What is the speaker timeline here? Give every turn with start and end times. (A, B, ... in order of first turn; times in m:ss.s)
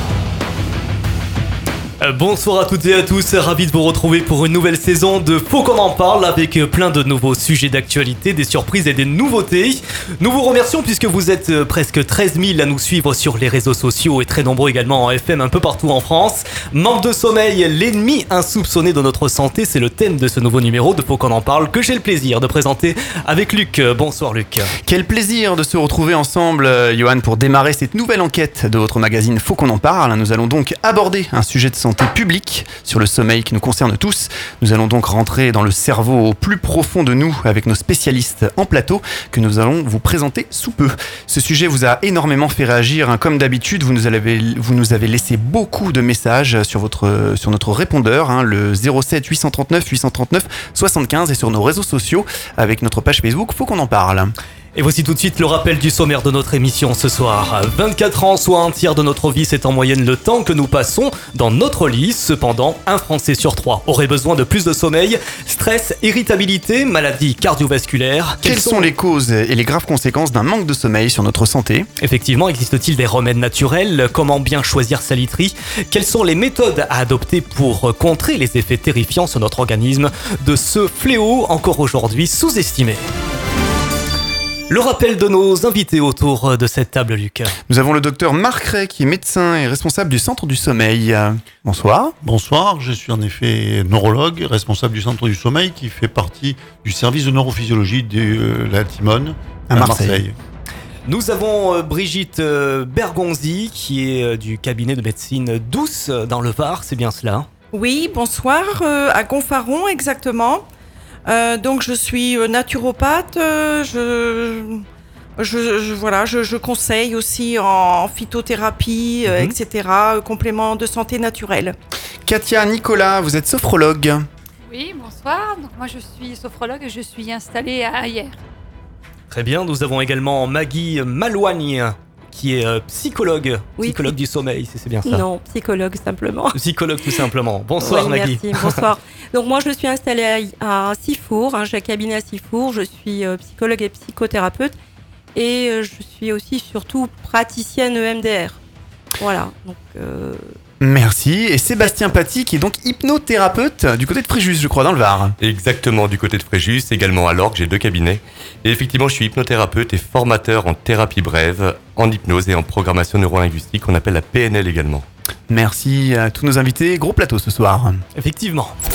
0:02.0-0:24.7 A
0:24.8-0:54.4 B
0:54.8-1:08.9 A
1:08.4-1:11.9 B
1:12.0-1:23.0 A
1:24.7-1:27.6 A
1:27.7-1:32.2 B
1:32.2-1:40.4 C
1:39.7-1:40.2 B
1:41.1-1:47.5 A
1:47.7-1:50.7 D
1:51.3-1:54.8 D
1:55.4-2:01.8 D
1:59.3-1:59.6 A
2:02.2-2:04.3 B
2:04.6-2:08.4 E
2:09.3-2:15.2 A
2:13.8-2:14.1 F
2:15.0-2:17.2 F
2:16.5-2:18.8 A
2:17.8-2:24.8 F
2:25.3-2:28.6 F
2:29.2-2:30.6 F
2:30.8-2:35.4 B
2:35.4-2:45.1 G
2:45.5-2:48.0 B
2:48.2-2:48.8 A